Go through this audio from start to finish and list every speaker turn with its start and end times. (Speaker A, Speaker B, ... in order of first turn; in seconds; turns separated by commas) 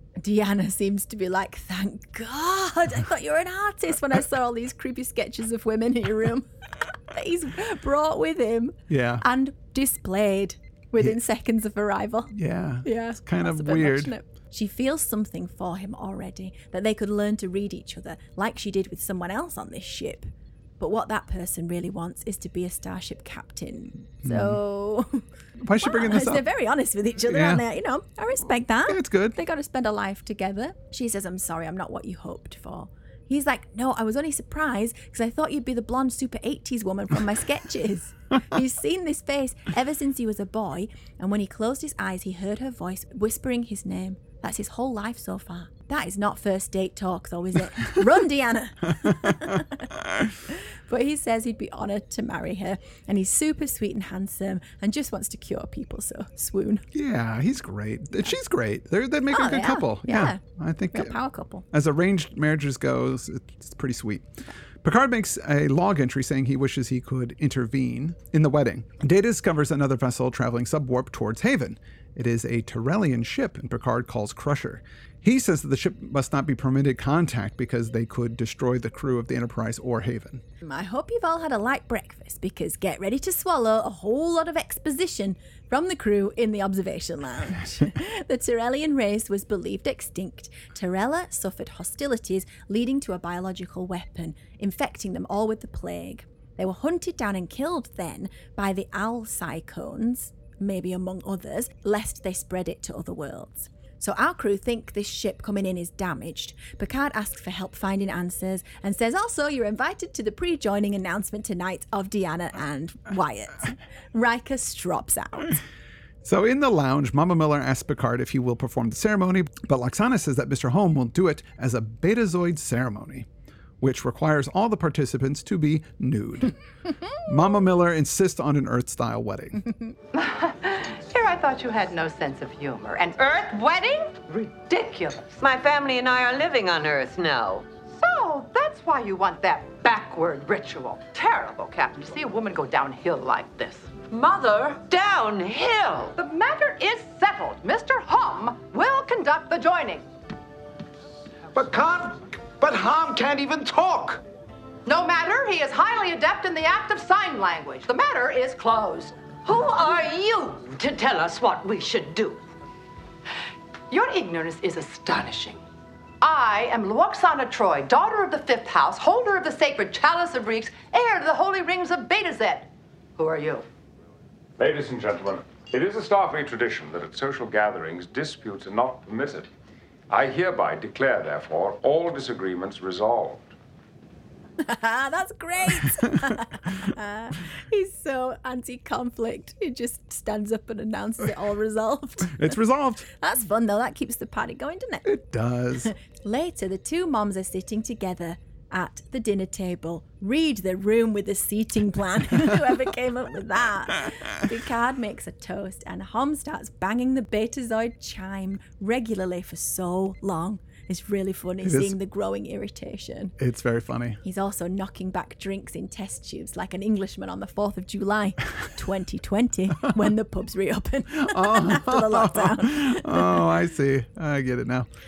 Speaker A: 0.2-25.2, Speaker B: 8.9-9.3, Speaker B: 12.3-14.1, Speaker B: 24.2-24.6, Speaker B: 25.6-26.5, Speaker A: 25.8-49.9, Speaker B: 27.3-27.6, Speaker B: 28.9-29.4, Speaker B: 49.0-50.3, Speaker A: 50.5-56.9, Speaker B: 56.9-61.1, Speaker A: 59.3-60.4, Speaker A: 60.9-61.7, Speaker B: 61.7-64.3, Speaker B: 64.8-80.4, Speaker A: 80.6-115.6, Speaker B: 116.2-123.3, Speaker B: 123.8-126.6, Speaker B: 127.2-129.7, Speaker C: 130.1-135.4, Speaker D: 135.4-137.7, Speaker C: 137.9-150.1, Speaker D: 145.1-145.4, Speaker E: 151.6-154.2, Speaker C: 154.9-162.4, Speaker C: 163.9-165.6, Speaker C: 166.2-173.7, Speaker F: 174.6-179.5, Speaker F: 180.1-183.5, Speaker A: 184.6-192.6, Speaker B: 192.3-193.1, Speaker A: 193.1-195.1, Speaker B: 195.1-195.9, Speaker A: 195.8-213.3, Speaker B: 211.6-211.9, Speaker B: 213.4-214.2, Speaker A: 214.2-223.5, Speaker B: 221.1-224.9